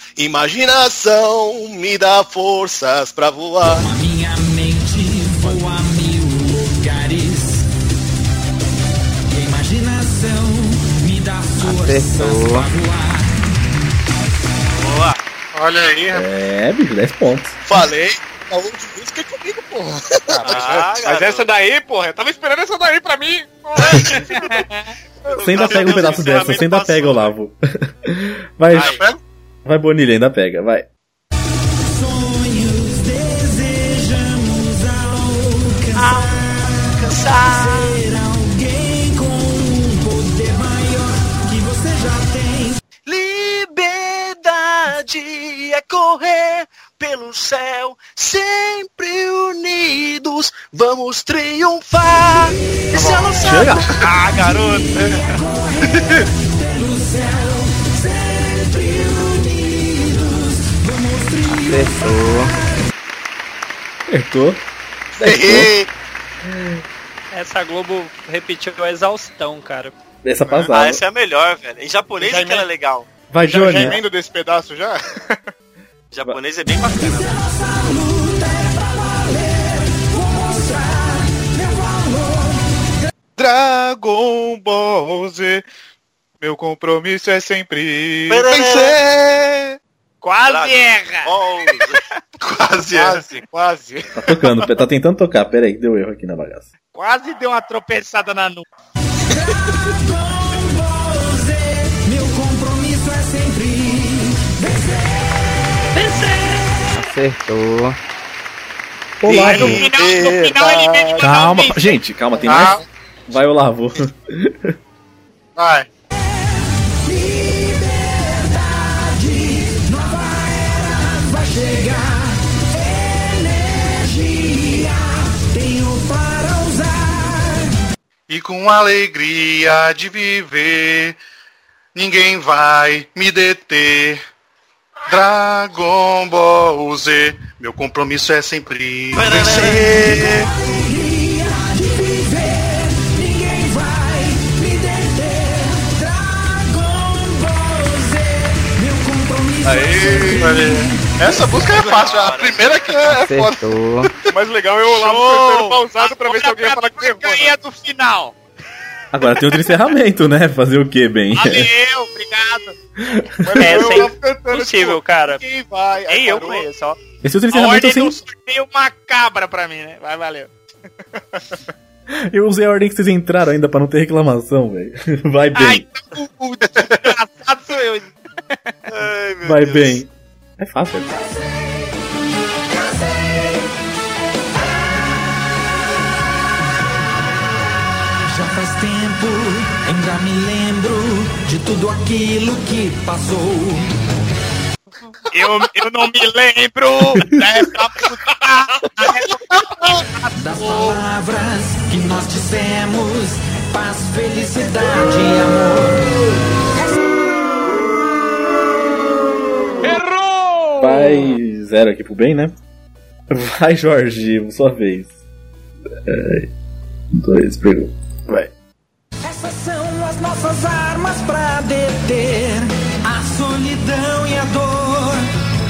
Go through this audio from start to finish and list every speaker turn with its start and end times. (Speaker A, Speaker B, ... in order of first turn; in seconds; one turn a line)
Speaker A: 0.2-3.9
Speaker B: 3.6-7.7
Speaker B: 9.3-13.3
Speaker C: 11.6-12.7
Speaker D: 14.8-15.2
Speaker E: 15.5-16.2
Speaker F: 16.1-17.6
Speaker A: 17.7-19.8
Speaker G: 20.3-24.2
Speaker D: 20.4-21.5
Speaker D: 23.8-24.4
Speaker D: 25.3-27.3
Speaker G: 25.4-26.0
Speaker F: 25.4-29.0
Speaker D: 28.7-29.0
Speaker E: 28.7-29.2
Speaker F: 29.6-30.9
Speaker B: 31.8-42.8
Speaker D: 36.0-38.0
Speaker D: 43.1-55.2
Speaker B: 52.4-53.6
Speaker E: 53.0-53.3
Speaker F: 53.4-53.9
Speaker B: 54.3-62.6
Speaker C: 61.5-62.6
Speaker F: 64.1-64.6
Speaker A: 65.2-65.9
Speaker F: 65.2-65.7
Speaker F: 66.5-66.8
Speaker H: 67.3-69.9
Speaker F: 70.2-71.0
Speaker D: 70.7-73.1
Speaker G: 72.2-72.7
Speaker F: 73.3-74.0
Speaker G: 73.4-75.4
Speaker D: 76.1-77.4
Speaker B: 76.9-82.6
Speaker G: 83.4-85.7
Speaker G: 86.4-89.7
Speaker D: 88.3-89.0
Speaker I: 90.2-91.3
Speaker D: 90.5-92.0
Speaker E: 92.4-93.2
Speaker G: 92.9-94.1
Speaker F: 94.2-96.7
Speaker I: 96.9-98.6
Speaker B: 99.3-105.6
Speaker C: 106.9-108.0
Speaker F: 109.2-109.9
Speaker I: 109.4-112.0
Speaker F: 111.2-114.7
Speaker E: 112.5-112.8
Speaker E: 115.6-115.9
Speaker B: 116.1-127.7
Speaker E: 128.3-131.2
Speaker E: 131.9-134.2
Speaker E: 135.1-140.2
Speaker D: 139.1-140.5
Speaker B: 139.9-151.3
Speaker G: 149.7-150.5
Speaker E: 150.1-153.5
Speaker D: 151.8-152.8
Speaker C: 153.1-154.1
Speaker G: 154.3-157.6
Speaker I: 154.9-158.3
Speaker F: 159.1-161.7
Speaker I: 161.3-162.8
Speaker F: 163.1-163.8
Speaker G: 163.4-166.7
Speaker H: 163.6-165.4
Speaker I: 166.1-166.6
Speaker H: 166.2-166.9
Speaker F: 167.2-168.2
Speaker I: 167.5-170.5
Speaker F: 172.3-175.8
Speaker I: 175.5-178.1
Speaker D: 178.9-180.0
Speaker F: 179.4-181.1
Speaker B: 188.3-193.9
Speaker I: 195.3-199.4
Speaker F: 197.2-197.4
Speaker B: 200.4-206.0
Speaker F: 210.8-212.6
Speaker F: 213.3-215.1
Speaker F: 216.1-216.5
Speaker F: 217.1-218.5
Speaker B: 219.2-225.3